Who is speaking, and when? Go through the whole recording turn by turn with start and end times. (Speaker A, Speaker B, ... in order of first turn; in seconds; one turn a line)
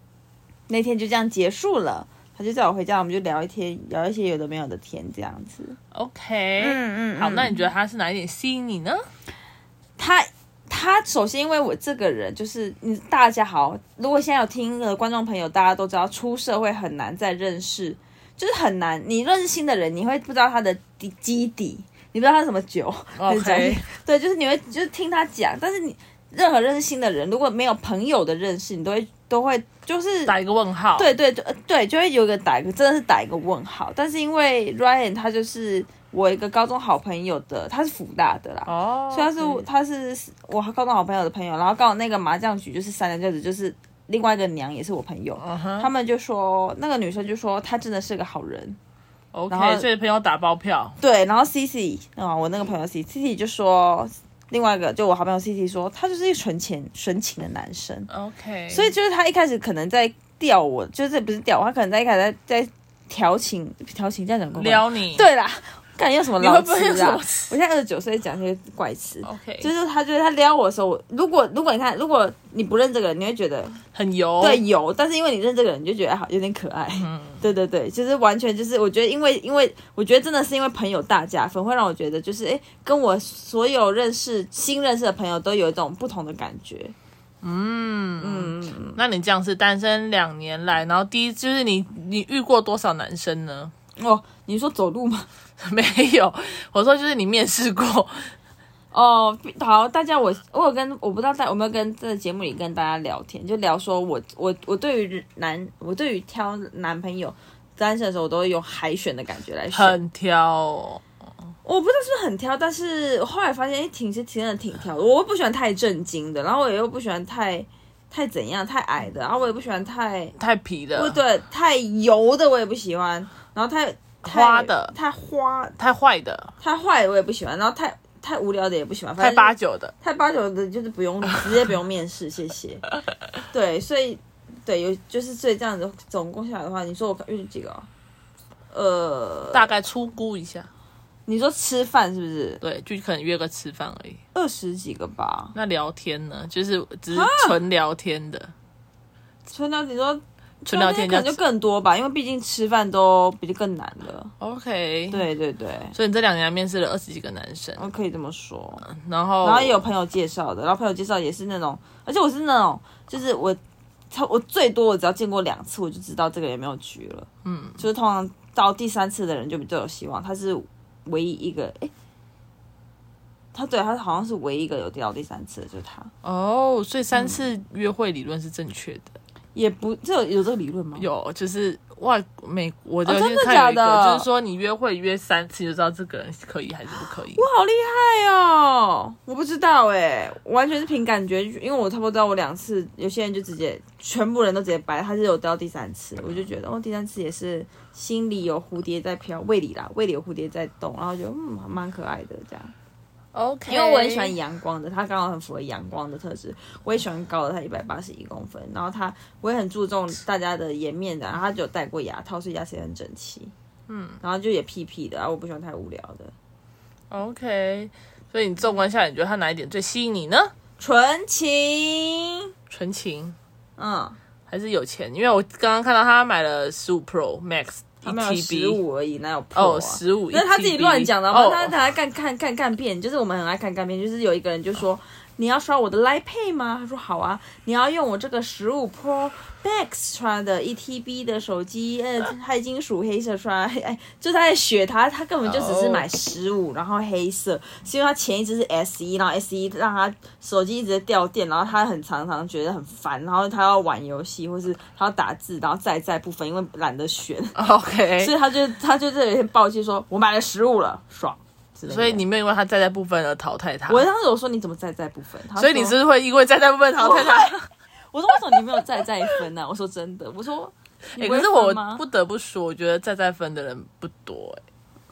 Speaker A: 0.7-5.8
Speaker B: 5.9-9.0
Speaker A: 6.6-7.6
Speaker A: 10.0-30.4
Speaker B: 23.2-23.9
Speaker B: 30.2-31.1
Speaker A: 30.9-48.8
Speaker B: 38.7-39.7
Speaker B: 45.4-45.9
Speaker B: 49.3-51.0
Speaker A: 49.5-49.9
Speaker A: 51.0-58.1
Speaker B: 58.1-58.9
Speaker A: 58.7-73.8
Speaker B: 64.5-65.2
Speaker B: 66.4-67.5
Speaker B: 69.2-69.7
Speaker B: 73.9-74.6
Speaker A: 74.4-86.9
Speaker B: 77.0-77.4
Speaker B: 87.4-93.7
Speaker A: 88.2-89.0
Speaker A: 94.0-95.3
Speaker B: 95.6-98.3
Speaker A: 98.9-110.0
Speaker B: 109.7-111.0
Speaker A: 111.7-120.3
Speaker B: 120.4-121.2
Speaker A: 120.9-125.8
Speaker B: 124.2-124.9
Speaker B: 125.8-126.5
Speaker A: 126.6-132.9
Speaker B: 129.2-129.9
Speaker A: 133.5-137.9
Speaker A: 138.7-139.7
Speaker B: 139.5-140.7
Speaker A: 141.3-142.6
Speaker B: 142.6-144.2
Speaker A: 144.3-145.6
Speaker B: 145.6-148.5
Speaker A: 147.1-147.6
Speaker A: 149.5-154.3
Speaker B: 150.7-151.4
Speaker B: 154.4-155.2
Speaker A: 155.1-155.9
Speaker B: 155.9-157.8
Speaker A: 157.8-158.8
Speaker B: 158.8-159.8
Speaker A: 159.4-163.6
Speaker A: 164.1-171.9
Speaker B: 167.4-167.8
Speaker A: 173.5-176.1
Speaker B: 176.2-179.2
Speaker A: 177.2-177.4
Speaker A: 179.6-181.1
Speaker B: 181.0-187.4
Speaker A: 183.1-184.3
Speaker A: 187.3-202.7
Speaker B: 203.3-204.3
Speaker A: 203.7-213.5
Speaker B: 213.9-214.2
Speaker A: 214.2-216.3
Speaker B: 217.1-220.5
Speaker A: 220.8-222.4
Speaker B: 222.7-223.4
Speaker A: 223.8-224.2
Speaker B: 224.5-228.8
Speaker A: 228.1-257.6
Speaker B: 229.6-231.8
Speaker B: 245.4-246.1
Speaker B: 257.6-258.3
Speaker A: 258.2-262.2
Speaker B: 261.9-264.1
Speaker A: 263.9-266.0
Speaker B: 265.6-267.7
Speaker A: 267.0-267.6
Speaker A: 268.1-272.0
Speaker B: 271.2-274.6